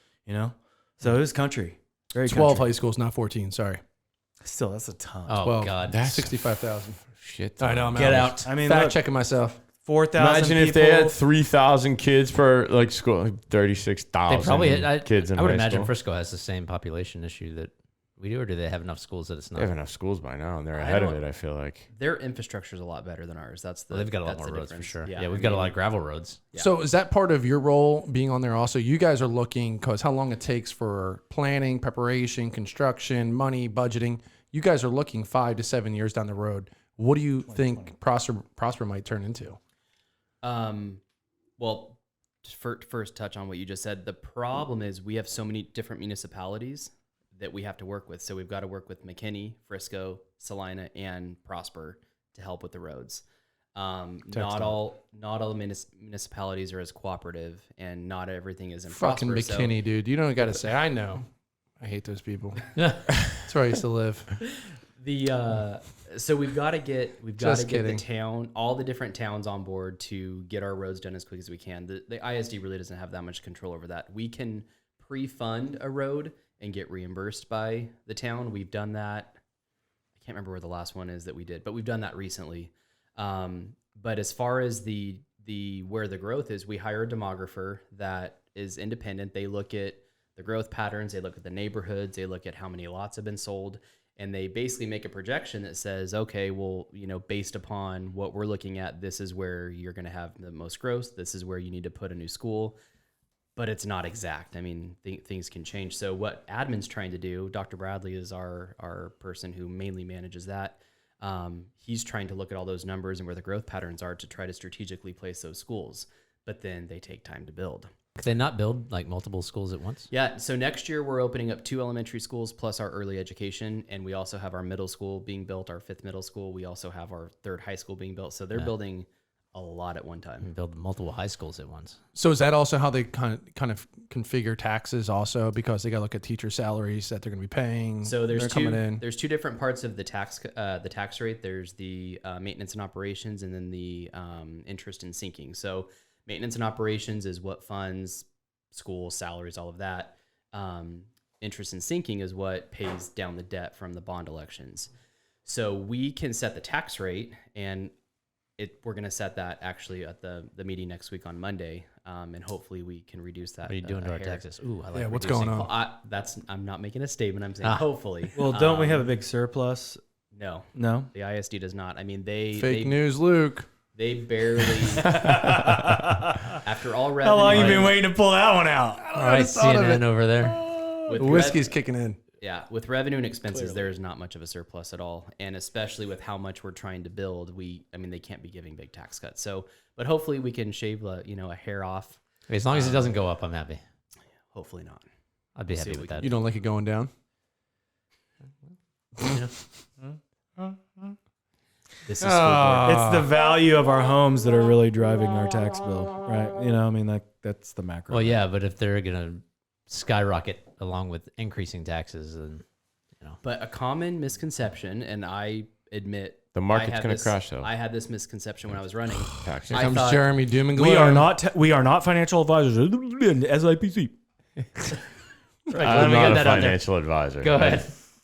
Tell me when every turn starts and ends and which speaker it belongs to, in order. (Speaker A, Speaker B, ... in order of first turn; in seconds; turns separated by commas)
Speaker A: 0.3-2.7, Speaker B: 2.2-3.8, Speaker A: 4.4-5.4, Speaker C: 5.3-6.0, Speaker B: 5.4-6.9, Speaker D: 5.8-8.5, Speaker B: 7.6-9.6, Speaker A: 8.0-9.0, Speaker A: 9.8-11.2, Speaker D: 10.2-15.9, Speaker C: 14.3-19.7, Speaker D: 19.6-21.9, Speaker E: 20.8-21.2, Speaker E: 21.9-25.8, Speaker C: 23.9-26.4, Speaker B: 26.6-39.6, Speaker E: 40.4-41.0, Speaker E: 41.6-53.2, Speaker E: 53.8-59.8, Speaker A: 54.3-54.7, Speaker B: 58.9-61.2, Speaker B: 61.8-62.7, Speaker B: 63.4-64.2, Speaker E: 65.0-79.4, Speaker B: 67.4-68.0, Speaker E: 80.2-102.8, Speaker E: 103.6-117.9, Speaker C: 118.2-120.1, Speaker E: 120.1-130.5, Speaker C: 130.4-132.0, Speaker B: 132.2-139.1, Speaker E: 138.0-154.9, Speaker E: 155.4-157.9, Speaker E: 158.6-164.4, Speaker C: 163.7-165.4, Speaker B: 164.9-165.7, Speaker E: 165.2-169.1, Speaker A: 168.3-170.0, Speaker E: 170.3-173.1, Speaker A: 170.8-171.1, Speaker B: 172.6-173.7, Speaker E: 173.9-175.2, Speaker A: 175.1-176.5, Speaker E: 176.6-178.0, Speaker A: 177.2-179.0, Speaker B: 179.1-179.8, Speaker C: 179.2-180.6, Speaker D: 179.6-180.0, Speaker E: 181.1-181.7, Speaker B: 181.2-182.2, Speaker E: 182.4-192.2, Speaker C: 192.5-193.8, Speaker E: 192.7-193.2, Speaker E: 194.5-195.1, Speaker C: 195.6-196.3, Speaker E: 195.7-196.5, Speaker B: 196.2-197.1, Speaker C: 199.2-199.5, Speaker A: 200.0-201.1, Speaker E: 202.1-203.0, Speaker B: 202.3-203.2, Speaker A: 202.8-208.4, Speaker C: 208.1-212.7, Speaker E: 213.4-220.3, Speaker D: 216.5-217.7, Speaker D: 219.2-219.9, Speaker B: 219.7-221.3, Speaker A: 220.8-224.1, Speaker C: 225.7-226.8, Speaker D: 225.7-227.9, Speaker A: 225.8-226.4, Speaker C: 227.4-227.9